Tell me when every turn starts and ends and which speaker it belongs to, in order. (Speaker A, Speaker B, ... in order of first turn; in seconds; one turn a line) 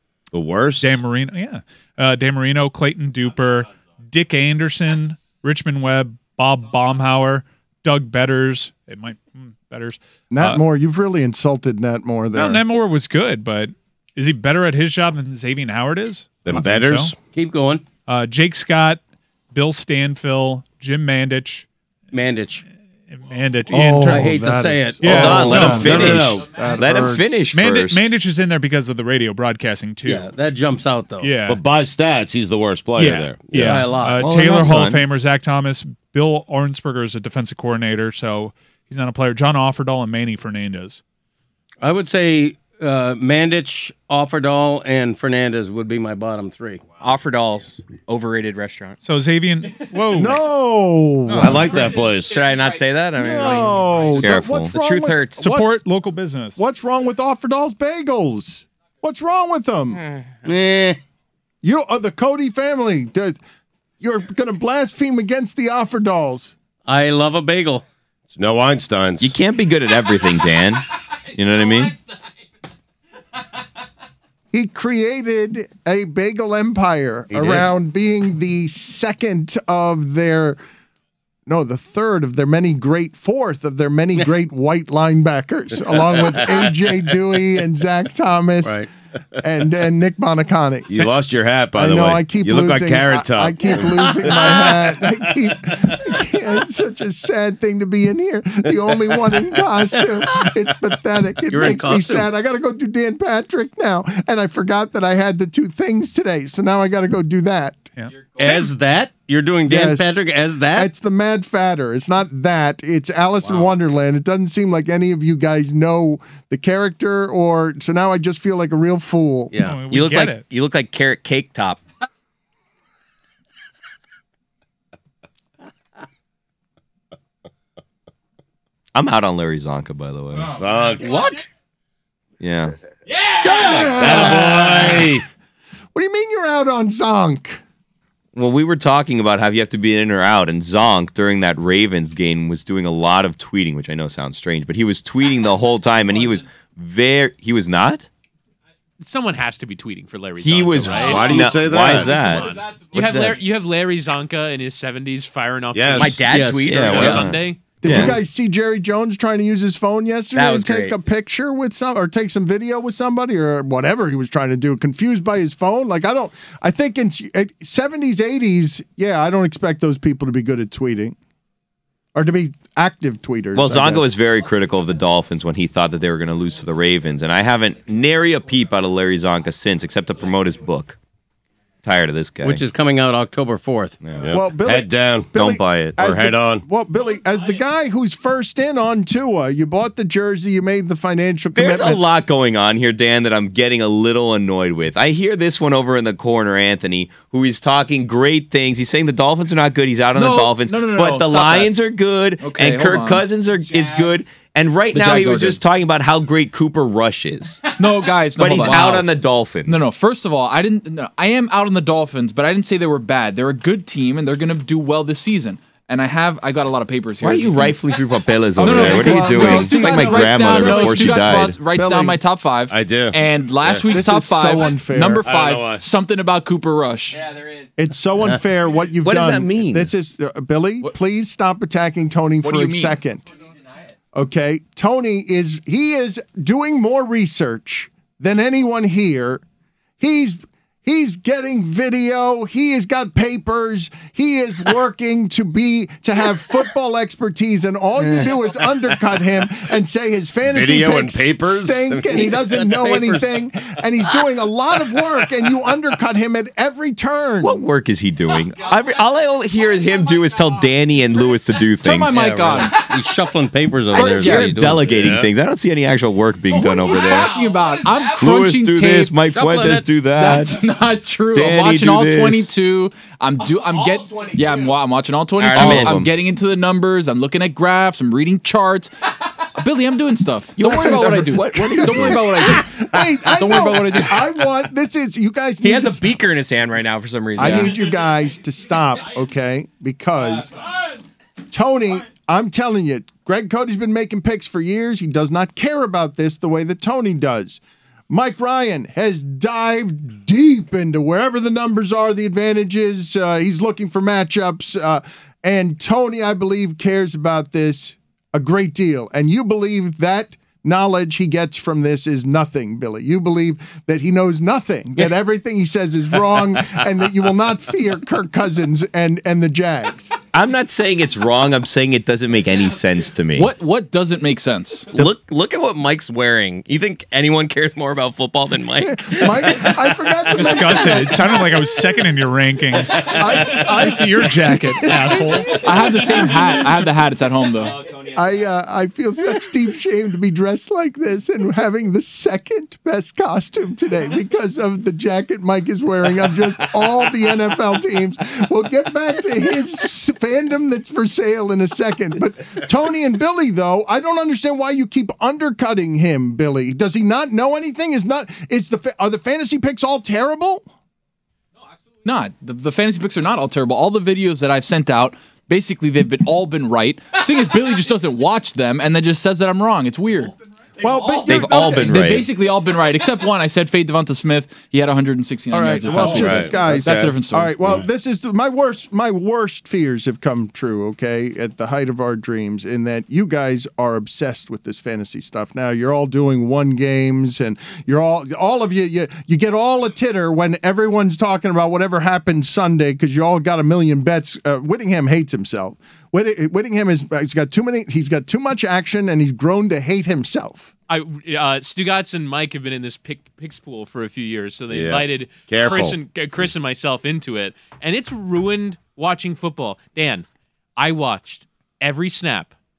Speaker A: 0.3-1.0
Speaker B: 0.8-10.6
Speaker C: 10.3-12.6
Speaker B: 12.3-17.1
Speaker A: 16.4-17.1
Speaker D: 17.3-17.8
Speaker B: 18.1-19.0
Speaker B: 19.5-21.6
Speaker D: 22.1-22.6
Speaker B: 23.1-24.3
Speaker C: 23.7-27.4
Speaker D: 24.0-26.0
Speaker B: 25.0-25.9
Speaker E: 25.0-28.1
Speaker A: 25.3-26.5
Speaker B: 27.5-30.3
Speaker D: 30.0-31.4
Speaker B: 31.2-31.6
Speaker A: 31.5-33.9
Speaker B: 33.0-41.0
Speaker D: 33.6-34.2
Speaker E: 34.2-35.0
Speaker D: 41.8-46.8
Speaker F: 47.0-49.0
Speaker B: 49.0-50.4
Speaker C: 50.1-51.7
Speaker B: 51.3-51.7
Speaker A: 51.4-52.5
Speaker F: 52.3-55.5
Speaker C: 53.2-55.8
Speaker E: 54.1-54.7
Speaker B: 55.4-56.6
Speaker C: 56.6-60.0
Speaker D: 60.5-61.0
Speaker C: 61.6-63.4
Speaker C: 64.0-66.5
Speaker D: 66.8-67.8
Speaker A: 68.3-69.3
Speaker E: 69.2-71.9
Speaker C: 74.5-80.6
Speaker D: 77.3-77.7
Speaker C: 81.5-91.0
Speaker A: 90.9-94.4
Speaker C: 91.8-107.9
Speaker D: 101.5-102.3
Speaker D: 108.4-110.9
Speaker C: 109.7-119.5
Speaker D: 119.5-119.8
Speaker B: 119.6-120.4
Speaker F: 119.9-121.8
Speaker E: 128.9-130.6
Speaker A: 130.5-131.4
Speaker E: 132.4-132.7
Speaker C: 133.4-135.2
Speaker A: 133.4-135.2
Speaker C: 135.9-137.6
Speaker E: 138.3-148.1
Speaker G: 149.0-158.1
Speaker E: 150.4-153.3
Speaker A: 151.0-152.2
Speaker H: 152.2-153.1
Speaker D: 153.0-153.4
Speaker A: 155.7-156.2
Speaker F: 155.9-157.3
Speaker D: 156.3-157.3
Speaker E: 156.7-158.2
Speaker C: 157.8-171.2
Speaker F: 160.3-161.0
Speaker C: 172.1-174.1
Speaker E: 173.5-181.0
Speaker E: 181.8-182.6
Speaker D: 182.4-184.0
Speaker E: 184.0-184.3
Speaker A: 184.2-186.6
Speaker C: 184.3-192.0
Speaker E: 185.3-186.0
Speaker E: 191.5-207.7
Speaker H: 200.1-201.7
Speaker H: 202.4-203.3
Speaker H: 204.9-205.6
Speaker H: 207.7-209.1
Speaker E: 208.3-209.8
Speaker H: 209.6-218.0
Speaker E: 217.2-221.6
Speaker H: 218.6-227.2
Speaker C: 218.6-222.2
Speaker A: 222.7-224.0
Speaker C: 223.9-225.2
Speaker A: 225.2-225.8
Speaker C: 227.8-233.3
Speaker E: 229.0-229.9
Speaker H: 232.4-233.0
Speaker C: 234.1-239.4
Speaker C: 240.0-257.6
Speaker A: 250.4-252.1
Speaker D: 252.1-253.4
Speaker E: 257.4-262.2
Speaker H: 261.8-262.8
Speaker D: 262.0-265.0
Speaker E: 263.9-267.4
Speaker H: 263.9-264.6
Speaker A: 264.9-265.3
Speaker H: 266.5-278.9
Speaker E: 268.1-270.6
Speaker D: 269.4-269.8
Speaker E: 271.3-272.5
Speaker F: 275.4-276.0
Speaker E: 275.5-276.1
Speaker H: 279.5-284.3
Speaker E: 280.6-282.6
Speaker C: 280.7-286.2
Speaker F: 285.6-287.9
Speaker C: 287.4-290.6
Speaker C: 291.5-320.1
Speaker E: 320.3-323.5
Speaker H: 323.3-324.9
Speaker F: 324.9-329.8
Speaker C: 328.8-331.8
Speaker B: 330.3-335.8
Speaker C: 333.0-336.6
Speaker H: 335.5-337.9
Speaker E: 337.9-338.2
Speaker C: 338.1-360.7
Speaker H: 362.0-370.3
Speaker C: 370.8-372.1
Speaker E: 371.2-372.3
Speaker H: 371.3-377.5
Speaker C: 375.5-400.7
Speaker A: 376.0-377.8
Speaker G: 400.9-410.2
Speaker A: 404.7-406.0
Speaker G: 410.8-412.5